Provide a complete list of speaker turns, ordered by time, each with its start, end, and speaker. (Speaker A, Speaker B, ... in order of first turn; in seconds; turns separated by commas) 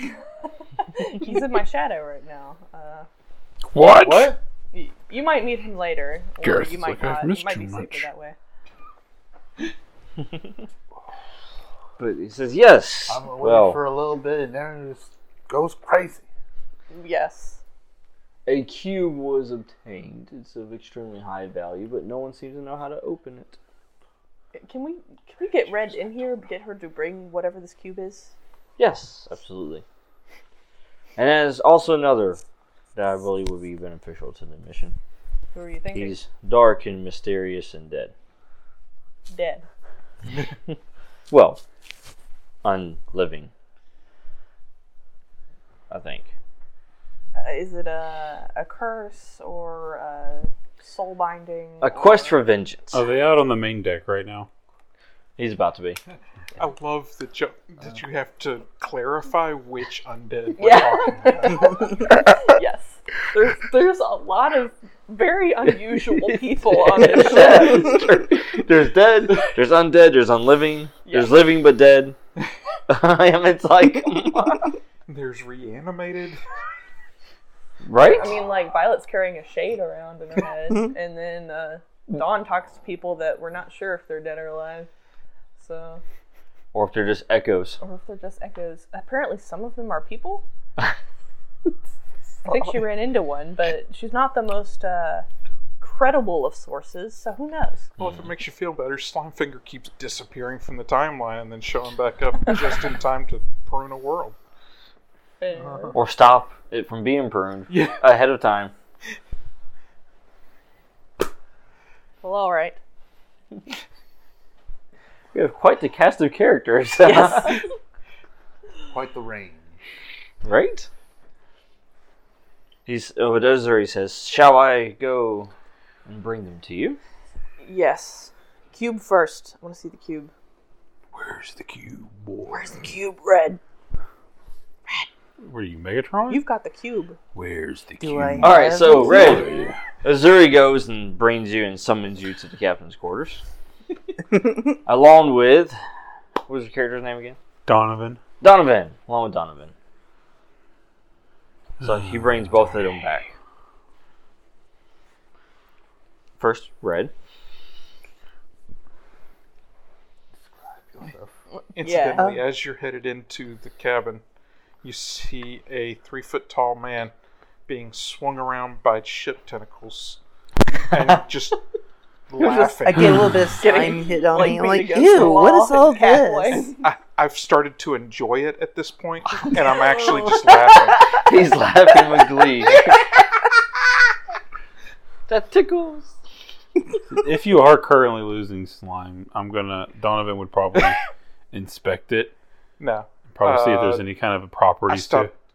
Speaker A: 0.8-3.1, Speaker B: 3.7-4.4, Speaker C: 3.8-4.4, Speaker A: 4.7-8.3, Speaker B: 6.4-8.1, Speaker D: 12.0-13.8, Speaker C: 13.1-16.3, Speaker A: 16.9-17.6, Speaker D: 18.4-23.6, Speaker A: 24.5-28.3, Speaker D: 28.8-29.8, Speaker D: 31.2-32.4, Speaker D: 33.0-35.0, Speaker A: 35.5-36.2, Speaker D: 35.9-38.1, Speaker A: 39.3-39.6, Speaker D: 41.3-41.6, Speaker D: 42.6-43.5, Speaker D: 45.9-46.3, Speaker A: 47.3-52.4, Speaker D: 51.8-53.0, Speaker B: 52.9-54.5, Speaker D: 55.4-56.0, Speaker E: 56.6-61.9, Speaker A: 60.6-67.9, Speaker D: 66.6-72.2, Speaker A: 71.0-71.4, Speaker D: 72.9-74.8, Speaker E: 75.1-76.4, Speaker D: 77.8-78.3, Speaker A: 78.2-84.9, Speaker A: 85.6-86.0, Speaker D: 86.7-87.8, Speaker A: 87.8-90.4, Speaker A: 92.4-95.2, Speaker A: 95.8-97.9, Speaker E: 98.0-104.4, Speaker A: 105.4-106.0, Speaker D: 105.9-108.7, Speaker E: 107.7-108.0, Speaker A: 112.2-112.8, Speaker D: 115.3-117.6, Speaker A: 117.0-117.7, Speaker C: 118.9-119.8, Speaker D: 120.4-120.9, Speaker D: 122.8-125.5, Speaker D: 126.0-127.0, Speaker A: 127.6-130.3, Speaker B: 131.1-132.9, Speaker A: 132.5-133.6, Speaker B: 135.4-136.4, Speaker A: 136.3-137.2, Speaker B: 137.3-139.8, Speaker F: 138.0-139.6, Speaker D: 138.4-143.4, Speaker D: 144.8-145.8, Speaker D: 146.4-147.4, Speaker B: 147.7-148.2, Speaker D: 148.4-149.7, Speaker D: 151.8-153.3, Speaker B: 151.8-152.8, Speaker D: 156.4-157.1, Speaker C: 160.3-161.3, Speaker A: 161.8-162.2, Speaker E: 161.8-164.2, Speaker E: 164.8-167.1, Speaker E: 167.7-170.2, Speaker E: 170.9-171.6, Speaker E: 172.3-173.3, Speaker F: 172.3-176.8, Speaker A: 173.6-176.7, Speaker E: 176.8-181.2, Speaker D: 181.0-183.0, Speaker D: 185.3-186.1, Speaker B: 187.1-191.0, Speaker B: 191.5-192.3, Speaker E: 192.8-194.1, Speaker B: 193.3-195.3, Speaker E: 194.9-195.3